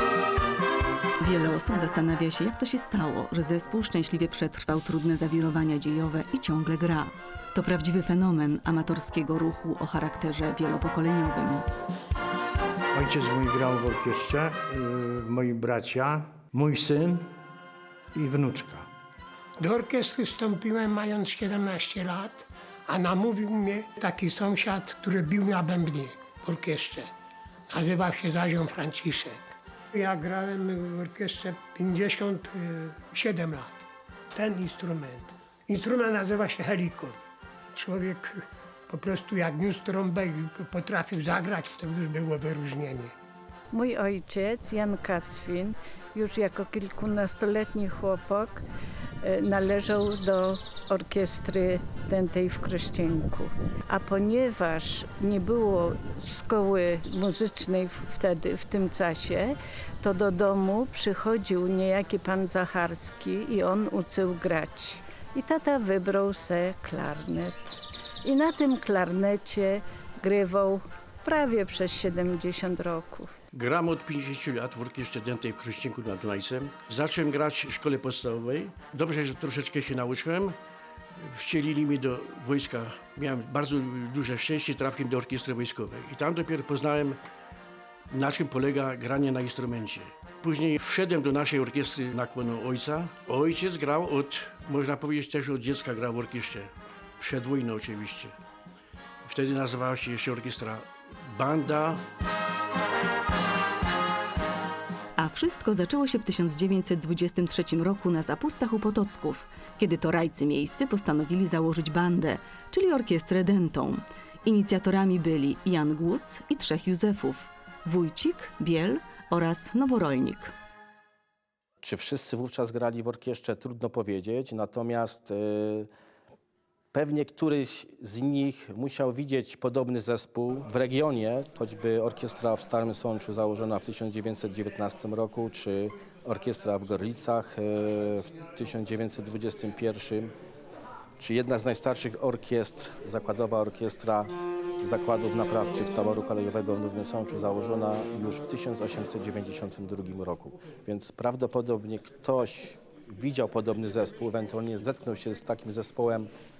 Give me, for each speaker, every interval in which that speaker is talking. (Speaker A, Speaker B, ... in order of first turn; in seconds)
Speaker A: 1.2-11.6, 105.2-120.5
Speaker B: 12.9-17.3, 18.1-18.9
Speaker C: 19.6-27.1, 27.7-37.2, 37.7-43.1
Speaker D: 43.7-48.6, 49.2-67.7, 68.2-73.3
Speaker E: 73.5-80.5, 81.2-87.2, 88.1-98.3, 99.2-102.0
Speaker F: 121.8-125.9, 126.9-140.3, 141.2-156.3